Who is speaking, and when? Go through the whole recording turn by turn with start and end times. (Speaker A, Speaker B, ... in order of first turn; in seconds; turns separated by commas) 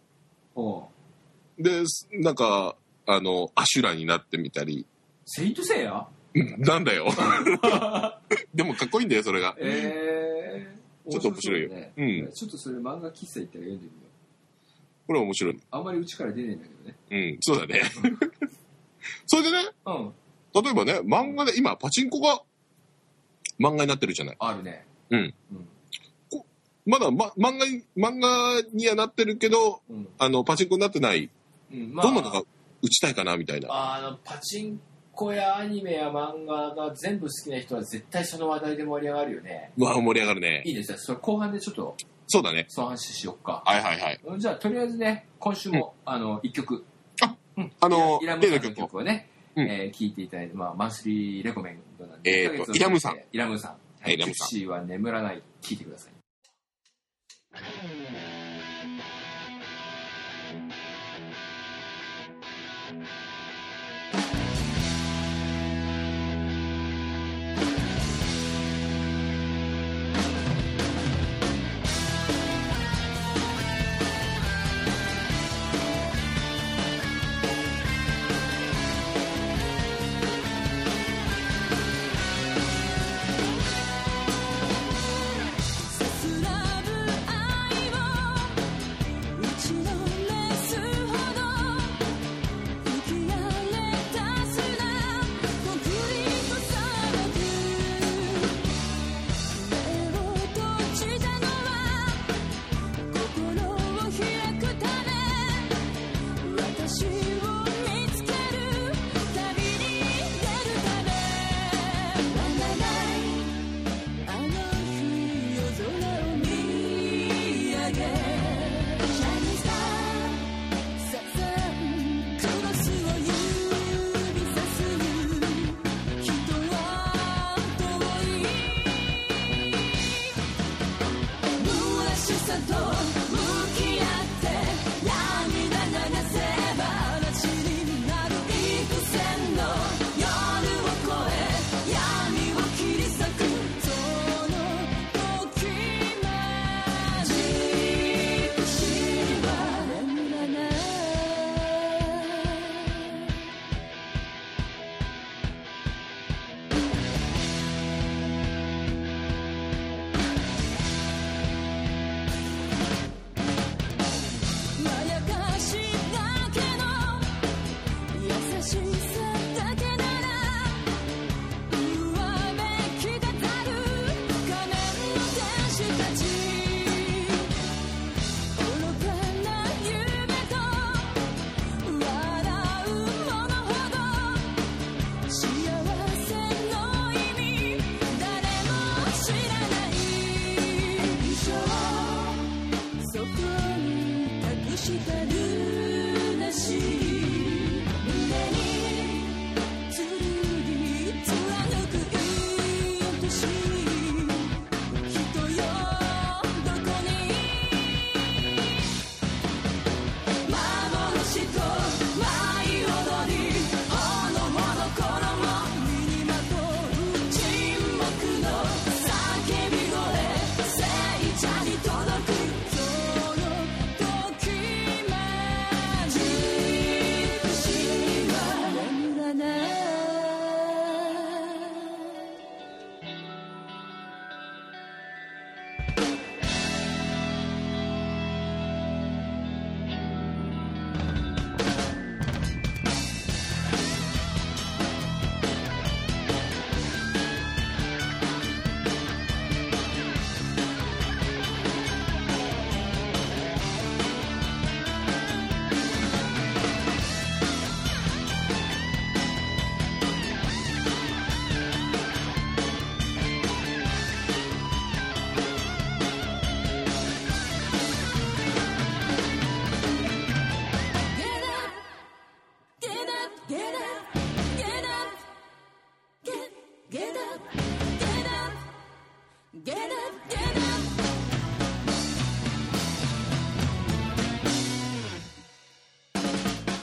Speaker A: 0.5-0.9, Speaker B: 1.6-4.9, Speaker A: 5.2-6.1, Speaker B: 6.3-9.9, Speaker A: 7.2-8.2, Speaker A: 9.6-14.1, Speaker B: 11.1-12.3, Speaker B: 15.1-15.6, Speaker A: 15.7-17.0, Speaker B: 17.1-18.3, Speaker A: 18.0-18.2, Speaker B: 19.3-19.7, Speaker A: 19.8-20.1, Speaker B: 20.5-22.4, Speaker B: 23.6-24.4, Speaker A: 24.4-24.9, Speaker A: 25.5-25.7, Speaker B: 26.3-31.3, Speaker A: 29.9-30.1, Speaker A: 31.7-32.4, Speaker B: 32.0-33.7, Speaker A: 33.7-39.7, Speaker B: 39.8-40.7, Speaker A: 40.6-42.0, Speaker B: 42.3-42.7, Speaker A: 42.7-43.7, Speaker B: 43.6-44.2, Speaker A: 44.2-46.9, Speaker B: 47.2-48.9, Speaker A: 47.5-56.2, Speaker B: 52.2-53.2, Speaker B: 54.0-54.5, Speaker C: 85.9-88.7, Speaker C: 89.3-92.1, Speaker C: 92.8-98.7, Speaker C: 99.5-102.4, Speaker C: 103.1-113.6, Speaker C: 114.2-129.1, Speaker C: 129.7-130.3, Speaker C: 131.6-153.0, Speaker C: 164.8-167.4, Speaker C: 168.1-171.0, Speaker C: 171.7-177.5, Speaker C: 178.5-181.3, Speaker C: 181.8-184.6, Speaker C: 185.2-208.1, Speaker C: 210.4-231.9, Speaker C: 271.1-271.9, Speaker C: 272.8-275.2, Speaker C: 276.2-278.6, Speaker C: 279.5-281.0